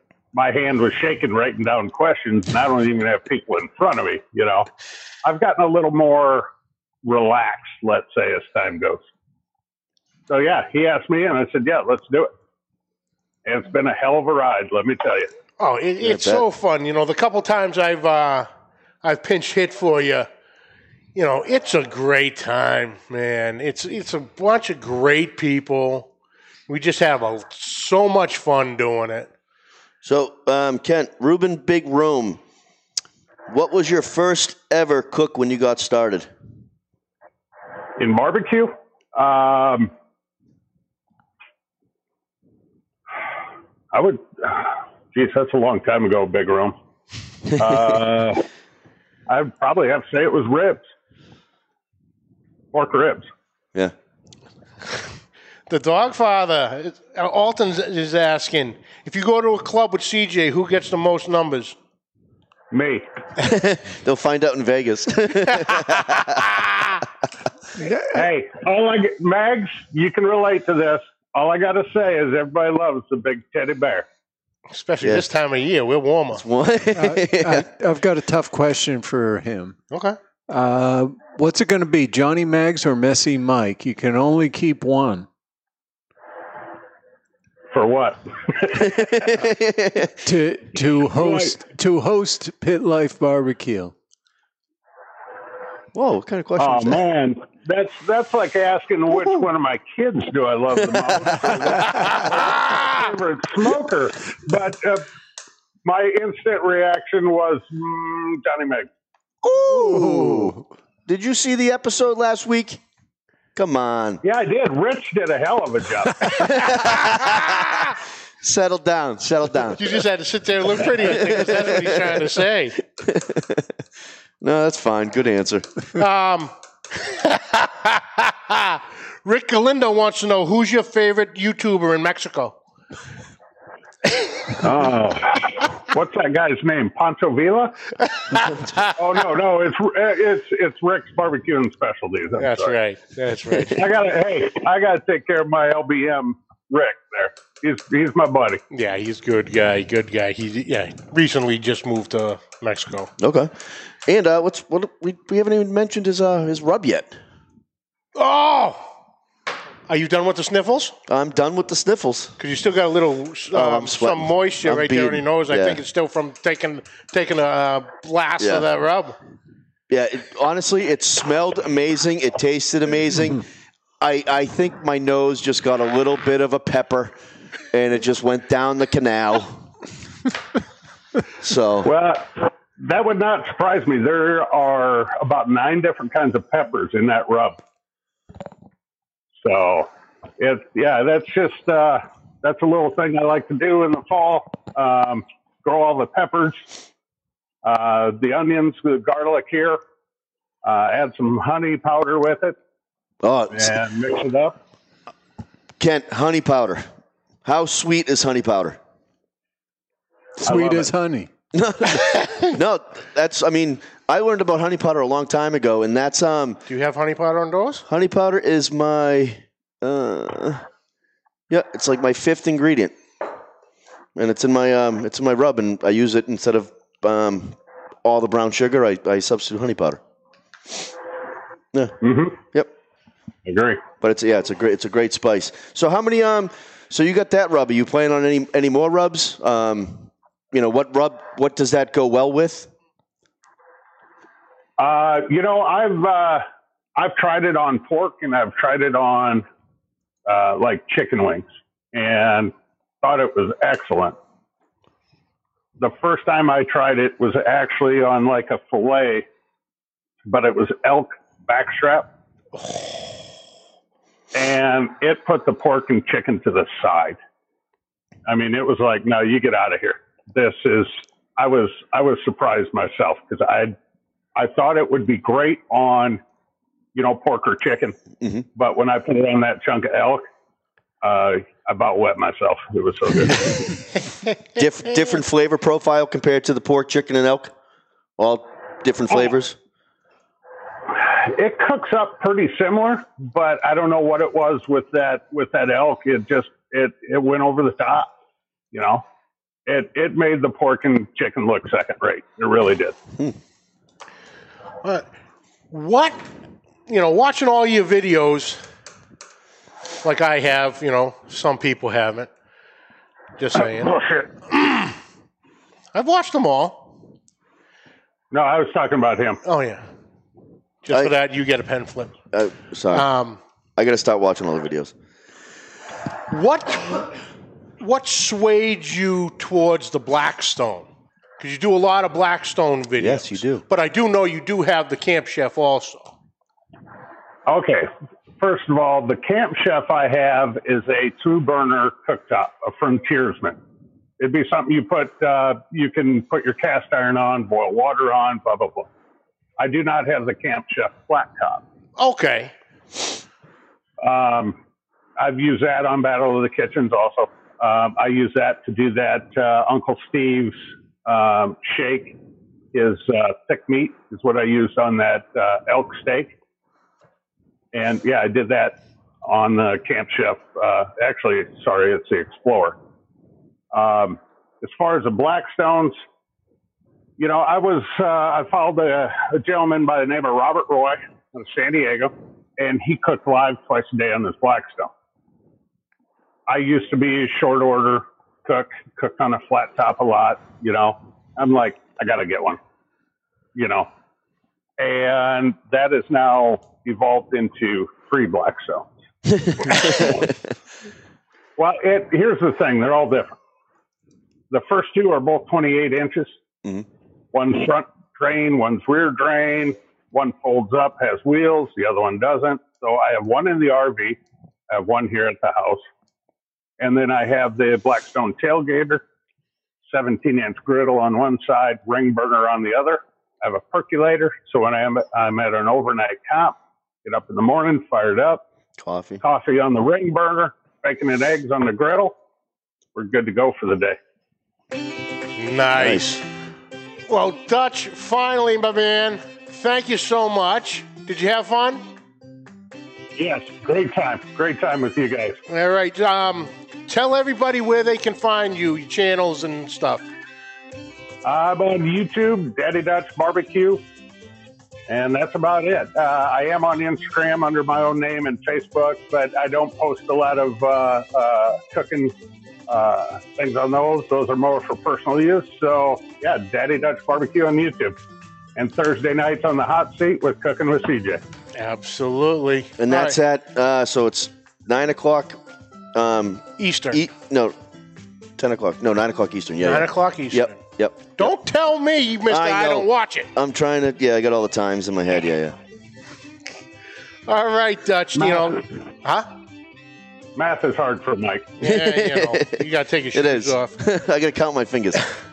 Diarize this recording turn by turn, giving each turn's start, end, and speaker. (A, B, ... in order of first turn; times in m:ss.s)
0:00.3-0:04.7 A
0:05.2-0:06.5 A
0:07.0-0:09.0 A
0:10.3-0:12.3 A
0:13.4-0:15.3 A
0:15.6-0:18.5 B
0:16.0-0:16.4 C
0:19.0-0:20.3 B
0:21.1-0:26.1 B
0:26.7-0:29.3 B
0:30.0-0:32.4 C
0:33.5-0:36.3 C
0:38.0-0:39.9 A
0:43.9-0:46.7 A
0:47.5-0:48.4 A
0:49.3-0:50.8 A
0:52.7-0:53.3 A
0:55.7-1:01.8 B
1:02.7-1:03.0 A
1:03.4-1:06.6 C
1:08.1-1:14.0 A
1:14.7-1:16.4 B
1:15.0-1:15.3 C
1:16.3-1:17.7 C
1:17.0-1:19.8 D
1:19.9-1:20.2 B
1:20.5-1:25.3 D
1:27.7-1:29.1 A
1:28.7-1:30.2 C
1:30.2-1:33.9 D
1:31.1-1:31.5 A
1:35.9-1:37.0 C
1:36.6-1:45.0 A
1:40.8-1:42.0 C
1:45.8-1:48.9 A
1:49.6-1:52.8 C
1:49.8-1:50.5 D
1:53.6-1:54.2 C
1:54.2-1:56.7 A
1:56.3-2:00.0 C
1:59.8-2:02.8 B
2:00.9-2:02.1 C
2:03.0-2:03.7 C
2:04.4-2:05.7 C
2:05.9-2:12.6 B
2:14.3-2:14.6 B
2:14.5-2:17.8 A
2:18.3-2:18.9 B
2:19.0-2:22.7 A
2:22.4-2:23.8 B
2:23.7-2:28.6 A
2:28.7-2:33.1 B
2:33.2-2:37.2 C
2:38.2-2:38.9 B
2:39.9-2:40.9 B
2:41.1-2:42.4 C
2:42.4-2:49.2 B
2:43.5-2:45.8 C
2:48.4-2:48.7 C
2:49.9-2:53.4 C
2:54.0-2:57.1 C
2:57.7-2:59.7 C
3:01.4-3:01.9 C
3:01.8-3:07.6 A
3:09.4-3:16.7 A
3:17.6-3:19.8 A
3:20.6-3:22.6 A
3:23.2-3:23.8 C
3:23.5-3:24.6 A
3:25.8-3:26.8 C
3:27.4-3:28.8 C
3:30.4-3:31.3 D
3:30.4-3:30.9 A
3:31.5-3:36.6 C
3:36.7-3:37.8 B
3:37.9-3:40.6 C
3:41.5-3:43.0 C
3:44.2-3:50.0 C
3:52.0-3:52.4 A
3:53.4-3:53.8 A
3:54.0-4:02.7 C
4:04.8-4:06.4 A
4:07.0-4:09.4 A
4:10.2-4:14.2 A
4:15.8-4:19.2 A
4:20.2-4:22.1 A
4:22.6-4:23.1 B
4:24.3-4:27.2 A
4:28.2-4:33.7 A
4:34.3-4:36.2 A
4:36.9-4:38.0 A
4:38.6-4:40.2 A
4:41.0-4:43.8 A
4:44.5-4:47.5 C
4:48.2-4:49.6 C
4:50.9-4:58.0 A
4:58.7-4:59.0 A
4:59.7-5:02.9 A
5:05.7-5:06.2 B
5:06.9-5:08.6 B
5:10.0-5:12.3 B
5:13.4-5:14.0 B
5:13.7-5:14.3 A
5:14.5-5:14.9 B
5:15.9-5:16.9 B
5:18.3-5:19.4 A
5:19.4-5:19.8 B
5:20.8-5:22.1 B
5:22.3-5:23.1 C
5:22.9-5:23.4 B
5:23.8-5:24.9 C
5:26.3-5:27.2 B
5:27.8-5:30.9 B
5:31.4-5:36.1 B
5:33.0-5:33.6 C
5:37.5-5:43.6 A
5:44.2-5:48.9 A
5:49.6-5:51.6 A
5:52.0-5:52.5 B
5:54.0-5:54.5 A
5:55.2-6:02.1 A
6:02.7-6:06.3 A
6:07.7-6:12.8 A
6:13.7-6:16.0 A
6:17.2-6:24.9 A
6:26.5-6:32.6 A
6:33.5-6:33.9 A
6:34.8-6:38.9 A
6:39.3-6:40.2 C
6:39.6-6:40.3 A
6:41.6-6:43.3 A
6:44.5-6:46.3 A
6:47.3-6:54.2 A
6:54.7-6:55.8 A
6:56.8-6:59.0 A
6:59.9-7:08.4 A
7:08.8-7:09.2 C
7:09.2-7:12.1 A
7:12.9-7:14.0 A
7:15.4-7:16.2 B
7:15.7-7:16.2 C
7:17.1-7:21.8 B
7:23.2-7:25.4 A
7:25.5-7:30.0 B
7:31.2-7:33.8 A
7:34.9-7:42.1 A
7:42.7-7:48.0 A
7:48.6-7:51.2 A
7:51.5-7:53.2 B
7:52.8-7:55.4 C
7:55.9-7:57.5 C
7:56.6-7:57.0 B
7:58.4-8:01.3 C
7:59.6-8:00.6 B
8:01.2-8:03.3 B
8:02.3-8:05.6 C
8:07.3-8:09.3 B
8:08.3-8:08.5 A
8:10.4-8:11.5 A
8:11.6-8:13.7 B
8:11.6-8:15.1 C